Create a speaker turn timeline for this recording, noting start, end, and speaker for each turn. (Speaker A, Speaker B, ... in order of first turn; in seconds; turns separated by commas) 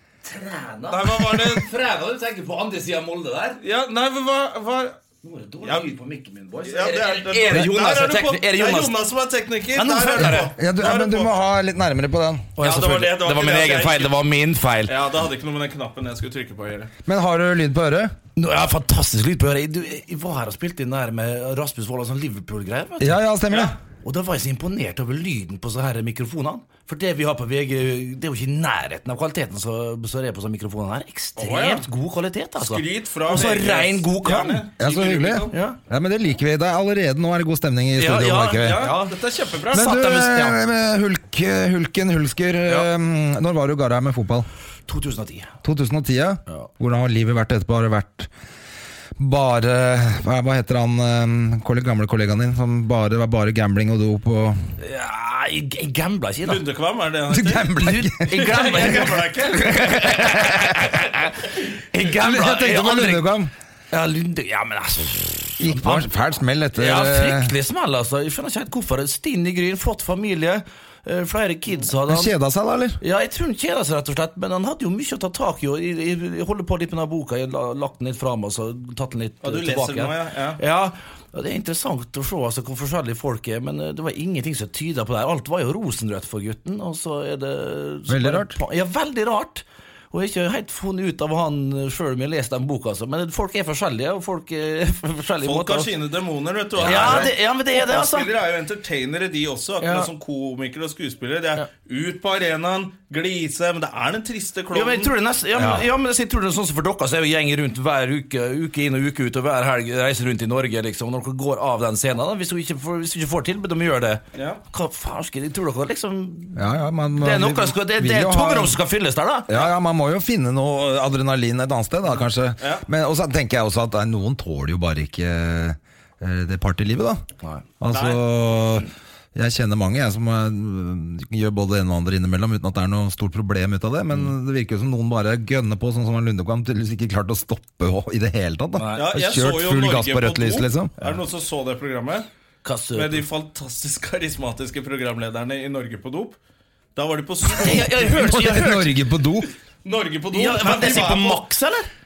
Speaker A: 0.2-3.6, Speaker B: 0.9-1.7, Speaker B: 3.6-5.0, Speaker A: 5.2-9.1, Speaker B: 5.6-5.9, Speaker B: 6.6-11.3, Speaker A: 9.7-10.5, Speaker C: 10.2-12.5, Speaker A: 12.6-14.9, Speaker B: 12.6-14.2, Speaker B: 14.8-16.9, Speaker C: 17.0-18.1, Speaker A: 18.4-23.2, Speaker C: 23.0-23.8, Speaker B: 23.5-23.8, Speaker A: 24.0-34.7, Speaker B: 31.4-31.9, Speaker B: 32.6-35.6, Speaker C: 34.8-38.9, Speaker A: 35.5-35.8, Speaker A: 38.0-40.6, Speaker B: 38.5-39.9, Speaker C: 39.7-44.5, Speaker A: 44.9-45.5, Speaker C: 45.6-48.3, Speaker C: 49.2-54.6, Speaker A: 54.8-56.6, Speaker B: 56.4-57.7, Speaker C: 57.3-58.3, Speaker A: 57.7-63.3, Speaker B: 58.2-59.9, Speaker C: 62.1-63.5, Speaker A: 63.9-66.1, Speaker C: 65.6-67.5, Speaker A: 66.7-72.3, Speaker C: 72.1-73.0, Speaker A: 73.0-95.9, Speaker B: 79.4-80.6, Speaker C: 88.1-88.6, Speaker B: 95.4-105.1, Speaker C: 96.8-97.3, Speaker A: 96.8-98.3, Speaker A: 99.8-100.1, Speaker A: 104.7-119.6, Speaker C: 105.5-105.9, Speaker B: 114.3-114.6, Speaker C: 116.5-118.8, Speaker C: 119.5-127.2, Speaker B: 122.6-122.8, Speaker C: 127.8-140.9, Speaker B: 127.9-128.2, Speaker A: 138.8-139.1, Speaker B: 138.9-142.3, Speaker A: 142.6-143.2, Speaker B: 142.9-146.3, Speaker B: 146.9-148.4, Speaker A: 147.5-149.0, Speaker C: 148.1-149.5, Speaker B: 149.8-151.4, Speaker A: 150.3-151.9